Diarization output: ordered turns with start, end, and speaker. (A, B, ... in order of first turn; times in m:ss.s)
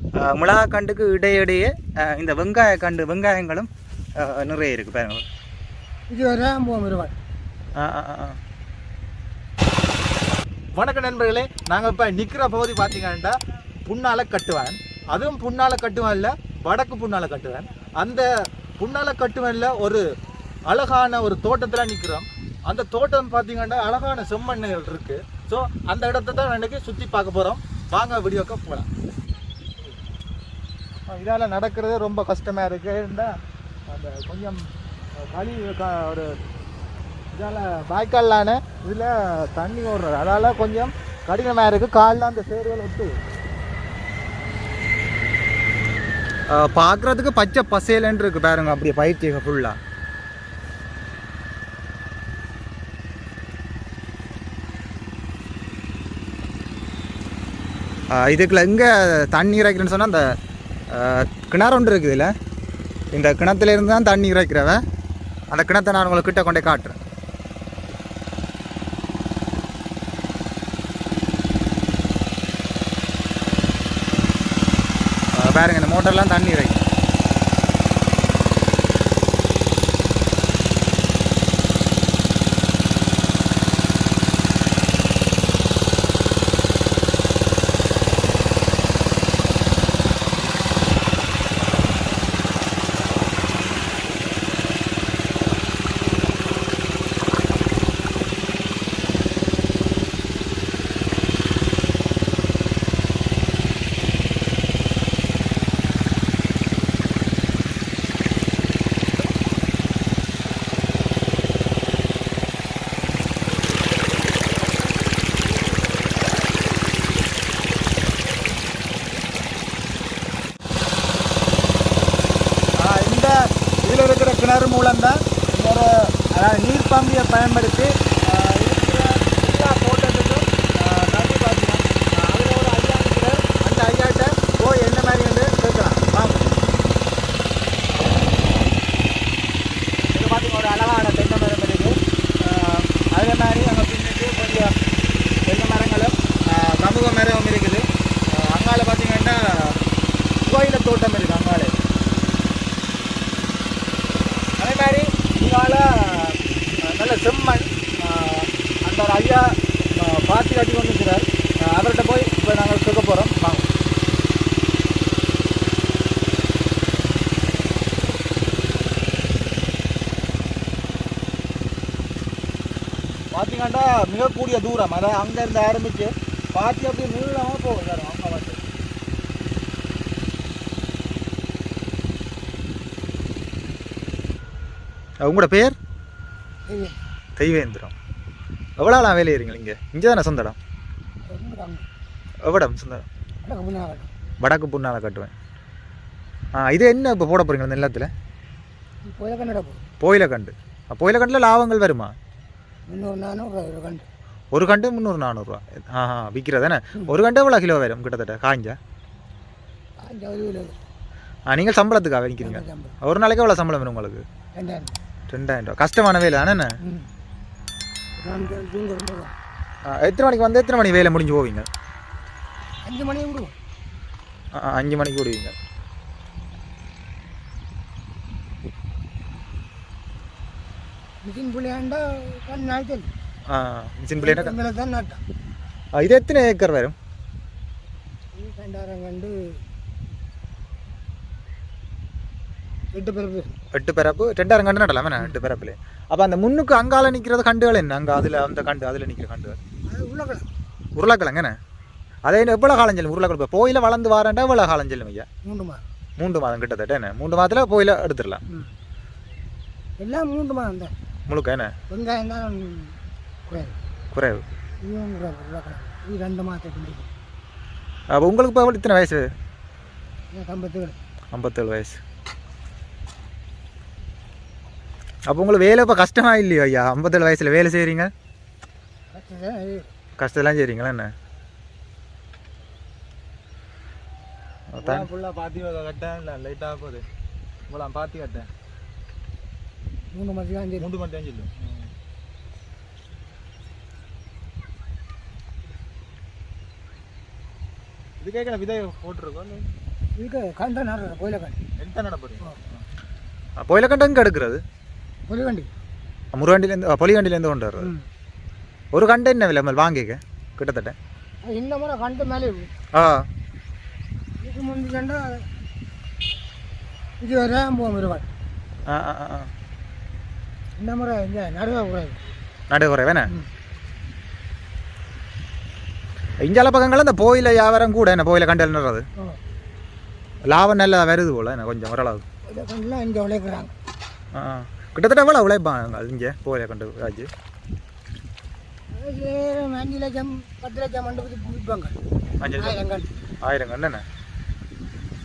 0:00.2-0:05.2 A
0:06.1-0:07.1 B
0:07.8-0:08.4 A
0:10.7-0:13.3 C
0:13.8-0:18.3 C
0:18.8-0:20.0 C
0:20.6-0:28.9 C
0:31.1-0:33.4 C
0:33.9-0:34.6 C
0:35.2-0:36.3 C
0:37.3-0:43.2 C
0:46.5-0:49.8 A
0:58.1-1:00.3 A
1:00.9-1:02.3 A
1:03.1-1:04.8 A
1:05.5-1:07.0 A
1:15.3-1:16.9 A
2:02.8-2:16.6 C
2:20.1-2:21.9 C
2:22.4-2:24.7 C
2:25.5-2:29.8 C
2:30.4-2:31.7 C
2:34.6-2:43.6 C
2:53.3-2:58.6 C
3:05.2-3:05.8 A
3:06.6-3:07.0 B
3:07.4-3:07.9 A
3:08.8-3:10.6 A
3:11.3-3:11.8 B
3:12.4-3:13.0 A
3:13.4-3:14.1 B
3:14.4-3:15.3 A
3:16.6-3:18.1 A
3:19.0-3:19.8 B
3:20.0-3:22.1 A
3:22.9-3:24.1 B
3:24.5-3:28.8 A
3:30.0-3:30.7 B
3:31.5-3:34.2 A
3:32.4-3:33.0 B
3:34.6-3:35.0 B
3:35.3-3:36.7 A
3:36.8-3:37.1 B
3:38.2-3:39.3 B
3:39.9-3:41.7 A
3:42.8-3:43.5 B
3:44.5-3:45.5 A
3:51.2-3:53.1 B
3:53.5-3:54.6 A
3:54.2-3:55.2 B
3:55.9-3:56.9 A
3:58.3-3:59.4 B
4:02.9-4:03.5 B
4:03.7-4:09.6 A
4:09.9-4:10.4 B
4:11.0-4:11.6 A
4:12.2-4:15.2 A
4:15.4-4:15.8 B
4:16.2-4:18.4 A
4:20.0-4:20.9 B
4:21.3-4:21.7 A
4:21.9-4:23.0 B
4:23.5-4:23.8 B
4:24.1-4:24.4 A
4:24.8-4:27.1 B
4:28.1-4:29.3 A
4:30.3-4:31.0 B
4:31.3-4:32.0 A
4:35.3-4:38.1 A
4:39.1-4:39.9 B
4:40.2-4:41.1 A
4:44.7-4:45.1 A
4:44.8-4:47.0 C
4:47.7-4:48.5 C
4:50.1-4:50.9 B
4:50.8-4:51.8 C
4:58.2-4:59.7 C
5:00.2-5:01.6 B
5:01.8-5:02.6 C
5:03.6-5:04.6 A
5:05.3-5:05.7 B
5:06.3-5:07.9 A
5:08.9-5:10.9 A
5:11.4-5:12.7 B
5:12.9-5:13.2 A
5:14.4-5:15.5 B
5:17.2-5:18.3 B
5:18.9-5:19.5 A
5:20.8-5:22.2 B
5:22.7-5:23.3 A
5:26.4-5:29.0 A
5:30.5-5:32.2 A
5:32.5-5:33.7 B
5:34.3-5:37.3 A
5:38.9-5:42.0 B
5:42.4-5:42.8 A
5:42.6-5:43.1 B
5:43.4-5:44.0 A